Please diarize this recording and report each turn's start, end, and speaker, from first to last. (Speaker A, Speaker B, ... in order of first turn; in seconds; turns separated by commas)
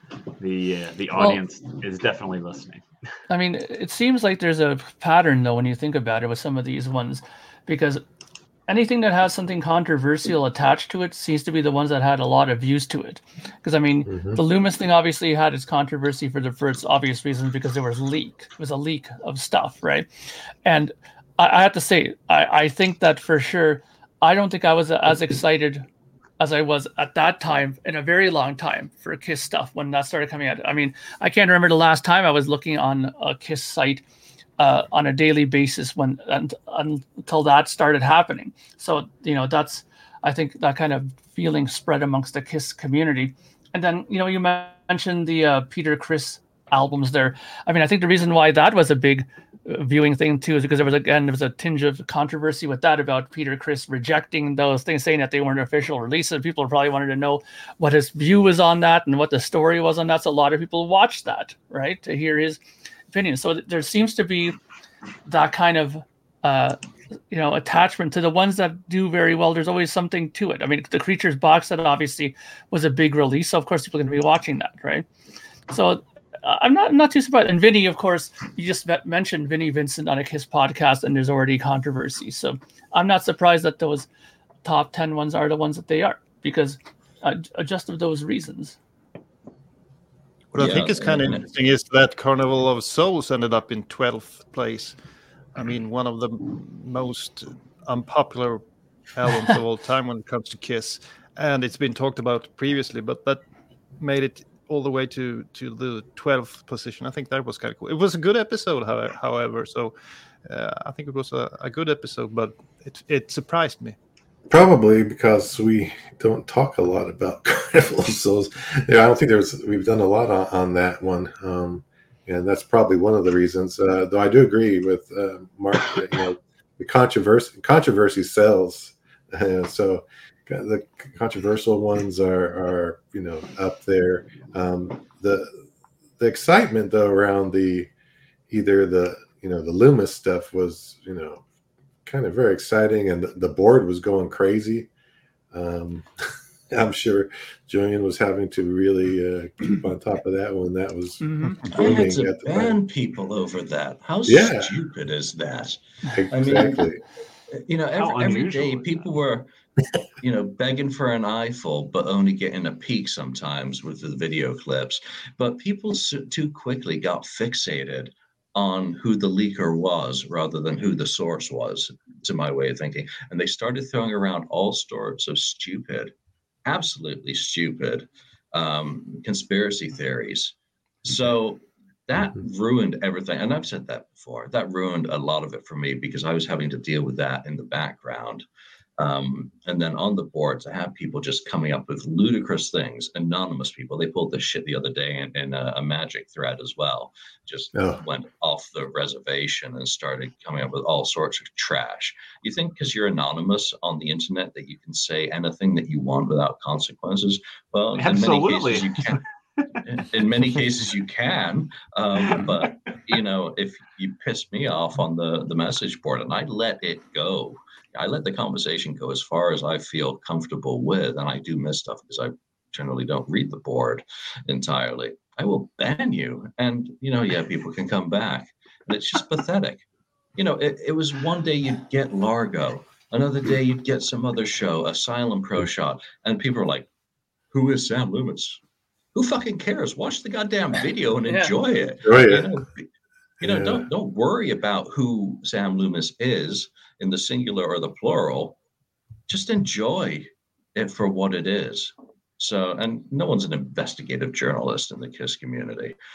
Speaker A: 0.4-2.8, Speaker B: 3.3-8.0, Speaker B: 8.7-20.1, Speaker C: 14.1-14.4, Speaker B: 20.6-25.9, Speaker B: 26.4-34.0, Speaker B: 34.6-62.6, Speaker B: 63.1-64.6, Speaker B: 65.2-66.8, Speaker B: 67.3-75.0, Speaker B: 75.7-84.1, Speaker B: 84.6-88.8, Speaker D: 90.5-95.0, Speaker E: 90.5-91.5, Speaker D: 95.5-98.6, Speaker D: 99.1-103.4, Speaker D: 104.0-109.9, Speaker D: 110.5-114.0, Speaker C: 114.5-135.5, Speaker C: 136.2-137.9, Speaker C: 138.5-141.4, Speaker C: 142.1-144.9, Speaker C: 145.5-152.8, Speaker B: 151.2-151.6, Speaker E: 151.7-156.9, Speaker C: 154.2-154.7, Speaker C: 156.1-157.0, Speaker E: 157.5-159.5, Speaker A: 157.9-159.1, Speaker E: 160.2-176.1, Speaker E: 176.7-188.4, Speaker E: 189.0-209.2, Speaker C: 197.7-198.0, Speaker A: 208.0-209.2, Speaker E: 209.8-236.9, Speaker A: 212.3-212.5, Speaker E: 237.5-238.6, Speaker E: 239.1-242.9, Speaker C: 242.0-242.5, Speaker C: 243.4-243.8, Speaker E: 243.4-248.6, Speaker E: 249.3-256.0